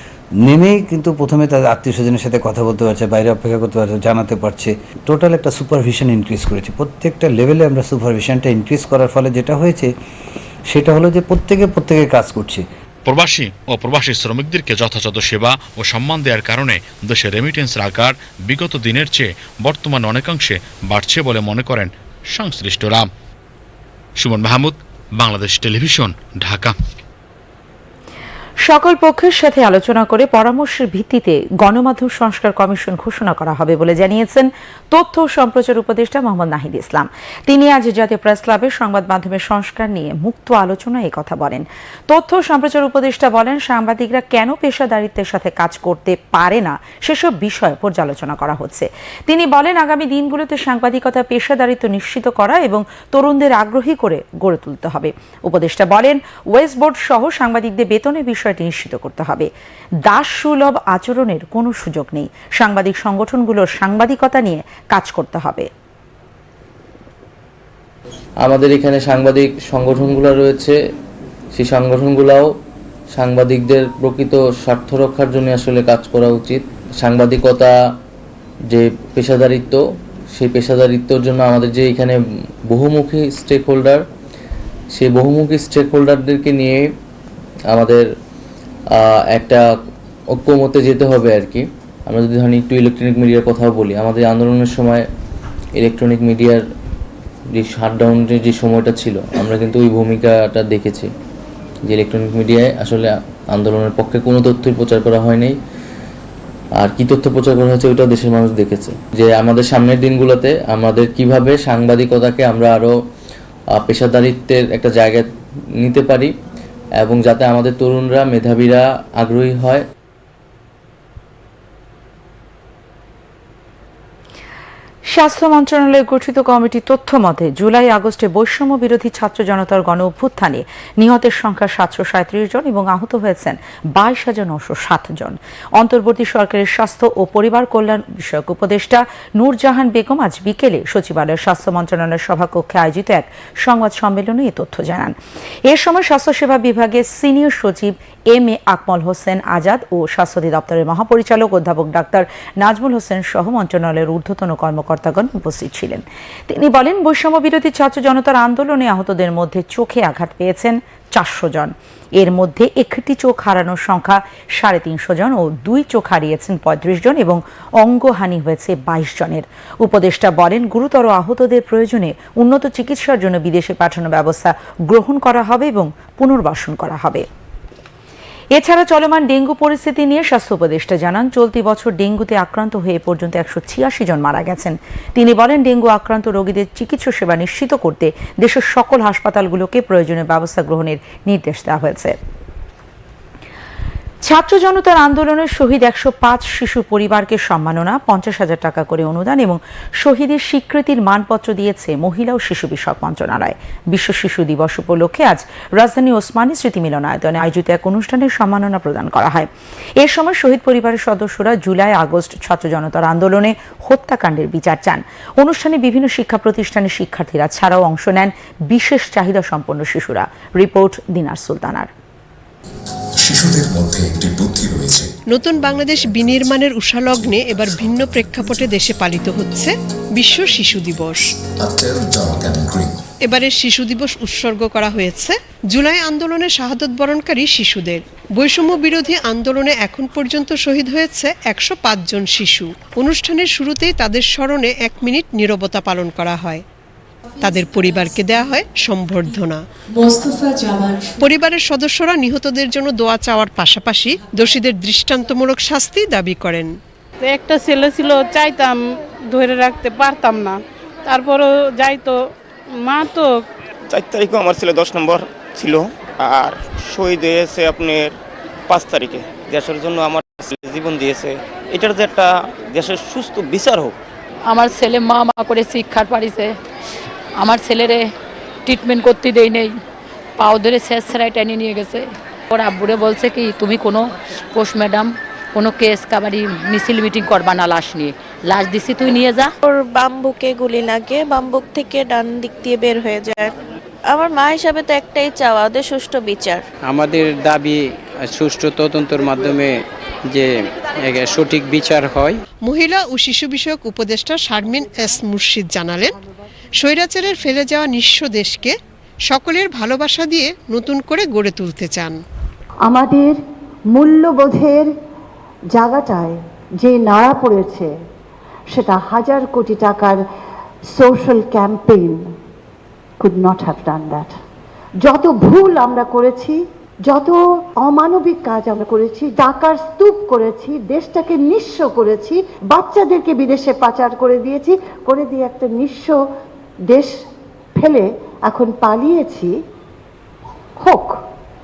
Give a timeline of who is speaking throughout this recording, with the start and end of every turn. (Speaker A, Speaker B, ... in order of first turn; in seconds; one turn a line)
Speaker A: 0.4-9.9
Speaker A: 10.7-12.6
Speaker B: 13.1-23.1
Speaker B: 24.2-26.7
Speaker C: 28.6-59.5
Speaker C: 60.0-65.7
Speaker D: 68.4-70.8
Speaker D: 71.5-72.5
Speaker D: 73.1-77.9
Speaker D: 78.7-79.8
Speaker D: 80.3-82.2
Speaker D: 82.7-84.0
Speaker D: 84.9-86.9
Speaker D: 87.7-88.1
Speaker D: 88.9-89.7
Speaker D: 90.3-95.0
Speaker D: 95.8-96.6
Speaker D: 97.5-101.1
Speaker D: 101.9-105.5
Speaker D: 106.8-113.0
Speaker D: 113.7-115.3
Speaker D: 115.8-116.3
Speaker D: 117.0-119.8
Speaker C: 125.1-177.2
Speaker C: 178.5-192.2
Speaker C: 194.2-221.9
Speaker E: 223.2-225.1
Speaker F: 225.3-231.2
Speaker E: 231.6-232.9
Speaker F: 233.2-246.6
Speaker F: 247.4-249.6
Speaker F: 251.2-256.8
Speaker G: 257.2-262.1
Speaker G: 262.8-263.3
Speaker H: 263.9-268.1
Speaker H: 268.7-273.9
Speaker I: 274.5-276.5
Speaker I: 277.4-278.1
Speaker I: 278.6-279.7
Speaker I: 280.4-289.5
Speaker J: 289.6-293.5
Speaker J: 294.1-296.6
Speaker K: 296.9-297.6
Speaker K: 298.3-299.6
Speaker K: 301.0-302.3
Speaker F: 302.6-306.1
Speaker F: 306.8-308.8
Speaker F: 309.3-312.2
Speaker L: 312.8-313.4
Speaker L: 313.9-314.9
Speaker L: 315.7-317.9
Speaker L: 318.7-320.2
Speaker L: 320.9-322.3
Speaker L: 323.2-324.3
Speaker L: 325.0-336.2
Speaker L: 336.9-337.1
Speaker L: 337.8-339.5
Speaker L: 340.8-341.2